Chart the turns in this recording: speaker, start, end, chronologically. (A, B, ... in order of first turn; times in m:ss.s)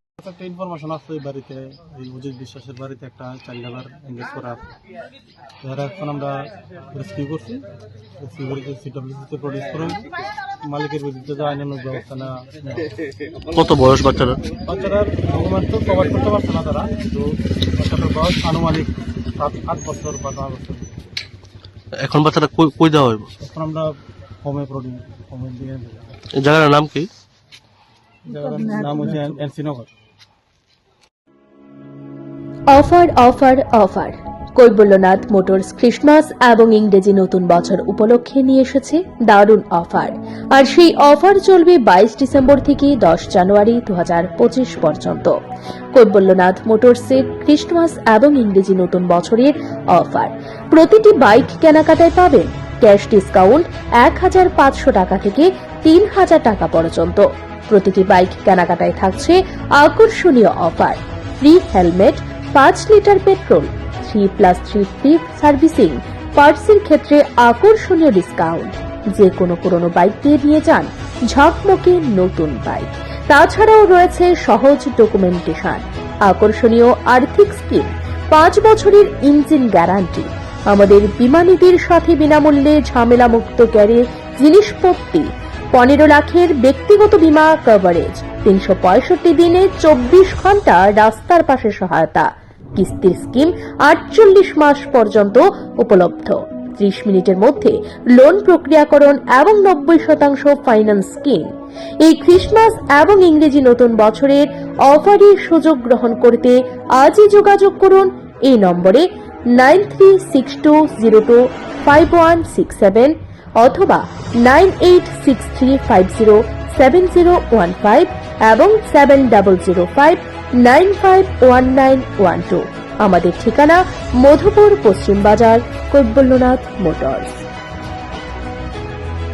0:00.2-0:04.6 A
0:05.6-0:06.4 A
0:06.9-0:07.6 A
0:08.2-0:10.0 A
0:10.7-0:12.9 A
0:13.5-0:14.4 B
0:14.6-0:20.9 A
0:22.0-0:23.3 B
0:23.4-0:26.2 A
0:26.4-0:27.1 B
0:28.3-0:29.9 A
0:32.7-0:45.4 C
0:45.9-2:07.4 C